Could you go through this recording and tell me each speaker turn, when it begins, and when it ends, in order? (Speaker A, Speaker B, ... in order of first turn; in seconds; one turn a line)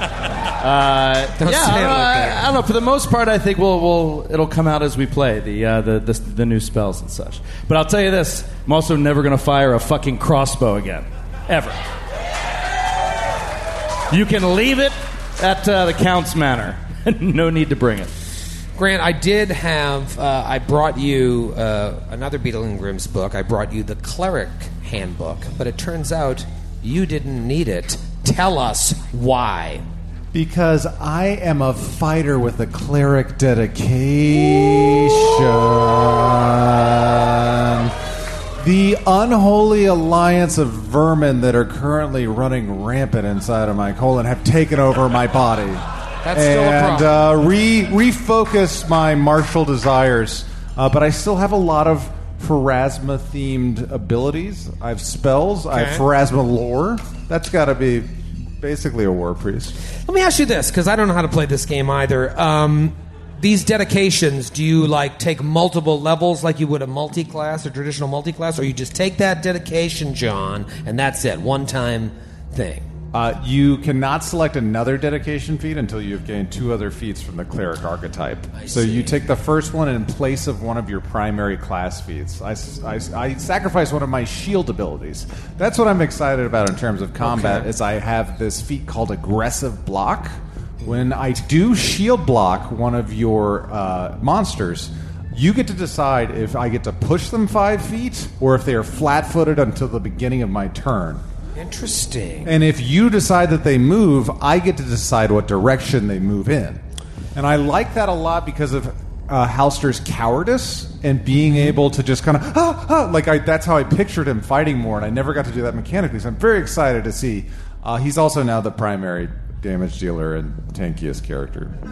Speaker A: 0.6-11.8
Speaker B: 1.4-2.5
Speaker A: 14.1-18.1
Speaker B: 18.8-29.9
Speaker C: 30.3-37.9
Speaker C: 38.6-59.8
Speaker B: 46.2-47.2
Speaker B: 55.7-56.0
Speaker B: 60.1-72.9
Speaker C: 73.1-90.3
Speaker B: 78.5-79.2
Speaker B: 87.2-87.7
Speaker C: 90.8-101.2
Speaker B: 101.5-102.5
Speaker C: 102.5-106.8
Speaker C: 107.3-121.8